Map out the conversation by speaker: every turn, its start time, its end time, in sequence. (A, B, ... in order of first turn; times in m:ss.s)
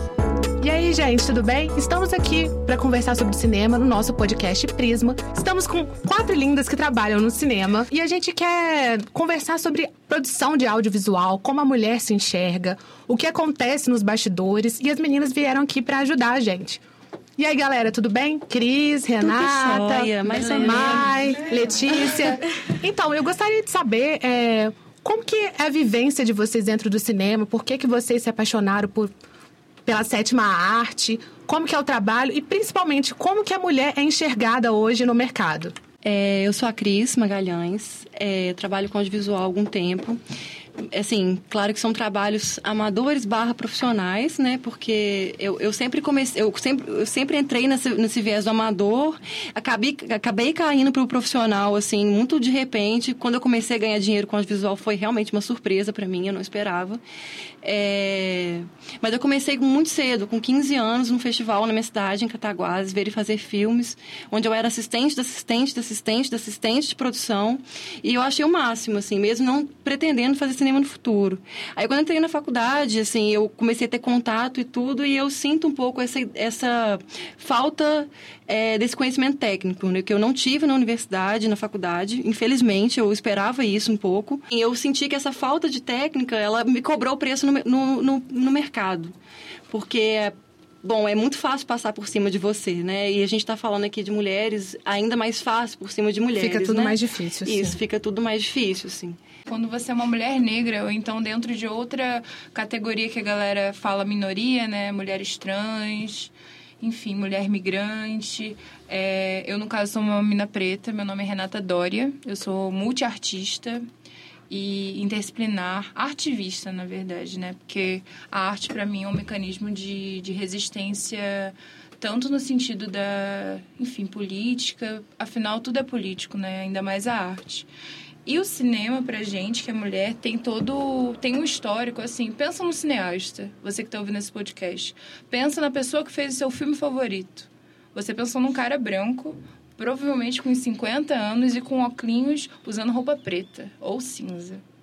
0:00.6-0:16.8 A
0:17.4-0:29.1 A
0:19.2-0:21.1 B
0:29.9-0:35.7 A
0:36.1-0:40.2 B
0:40.9-0:57.0 B
0:57.6-1:29.1 B
1:29.7-1:36.9 B
1:36.3-1:37.8 A
1:37.4-1:39.2 B
1:39.5-1:53.8 C
1:54.5-2:07.7 C
2:08.2-2:24.6 C